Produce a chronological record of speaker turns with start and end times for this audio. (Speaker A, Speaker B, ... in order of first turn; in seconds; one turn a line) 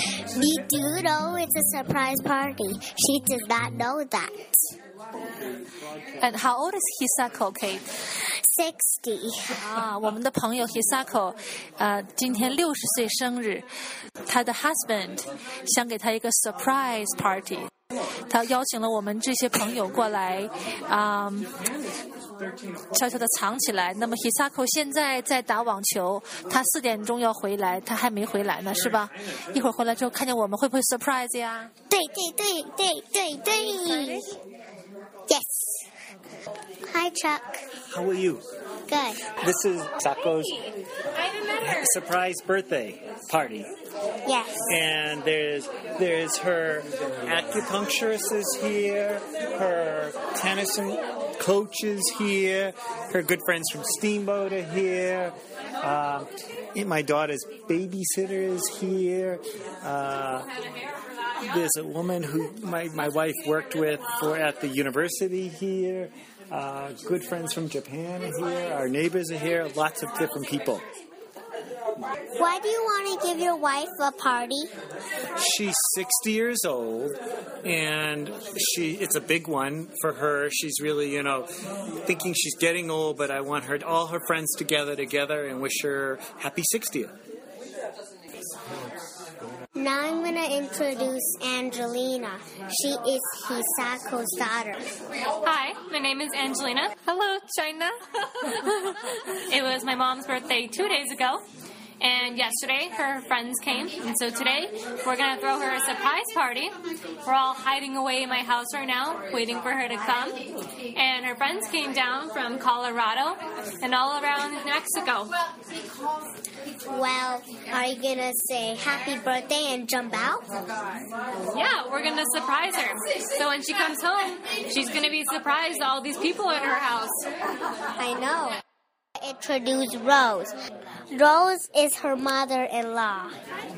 Speaker A: 0.3-4.6
Speaker B: 6.2-7.8
Speaker A: 8.4-9.6
Speaker B: 9.6-13.7
Speaker B: 14.3-17.7
Speaker B: 18.3-21.5
Speaker B: 22.9-31.7
Speaker A: 31.9-34.3
Speaker B: 33.5-34.2
Speaker A: 35.3-35.8
Speaker A: 36.9-37.6
Speaker C: 37.9-38.4
Speaker A: 38.9-39.3
Speaker C: 39.4-40.7
Speaker C: 41.5-43.7
Speaker A: 44.2-44.7
Speaker C: 44.7-60.5
Speaker C: 61.4-70.8
Speaker A: 72.4-74.7
Speaker C: 75.4-81.5
Speaker C: 82.0-87.1
Speaker A: 89.8-94.9
Speaker D: 95.4-101.4
Speaker D: 102.0-115.3
Speaker A: 116.9-120.5
Speaker D: 121.5-127.2
Speaker A: 128.0-128.6
Speaker A: 129.2-130.5
Speaker A: 131.1-133.3